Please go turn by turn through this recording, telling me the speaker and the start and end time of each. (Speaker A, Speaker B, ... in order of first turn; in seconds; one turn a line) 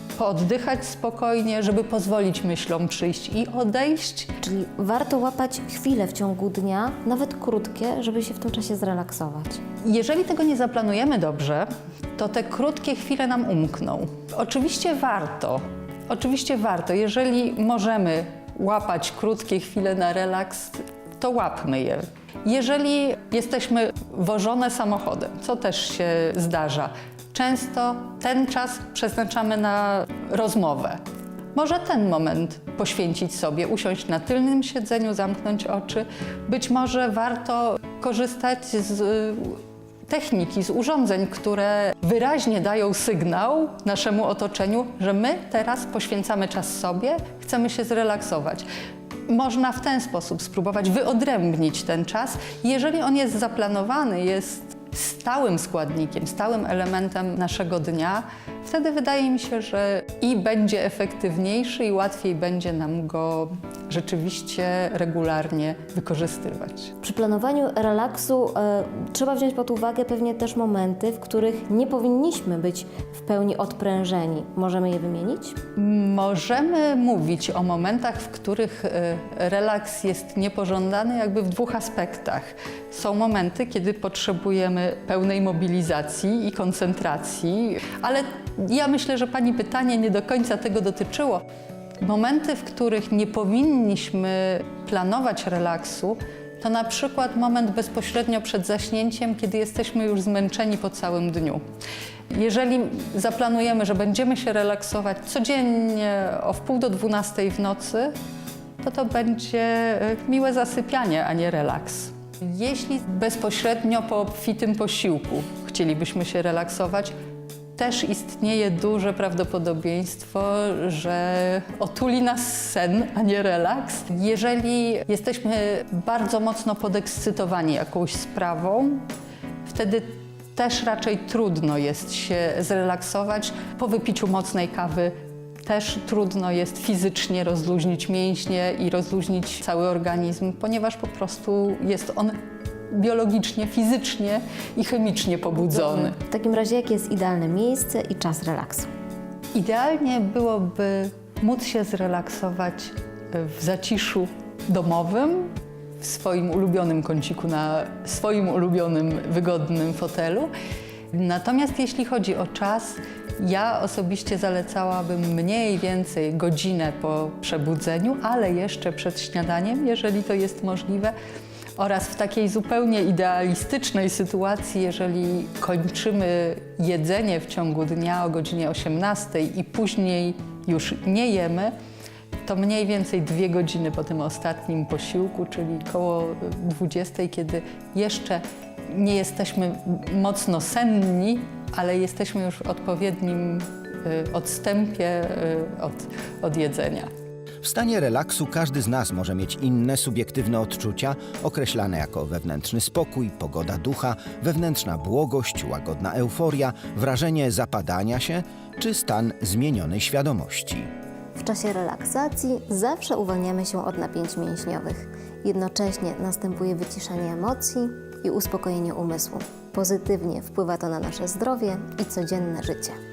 Speaker A: 0.2-4.3
Speaker B: 4.4-9.6
Speaker A: 9.8-31.0
Speaker A: 31.6-48.7
Speaker A: 49.3-66.9
Speaker B: 67.0-75.6
Speaker A: 75.8-91.4
Speaker A: 92.0-101.6
Speaker A: 102.3-108.2
Speaker A: 108.8-117.2
Speaker A: 117.8-129.1
Speaker A: 129.7-142.4
Speaker A: 142.9-146.2
Speaker B: 146.1-148.9
Speaker A: 149.5-160.5
Speaker A: 161.1-171.1
Speaker A: 171.8-181.7
Speaker A: 182.4-197.1
Speaker C: 197.6-210.9
Speaker B: 211.3-223.0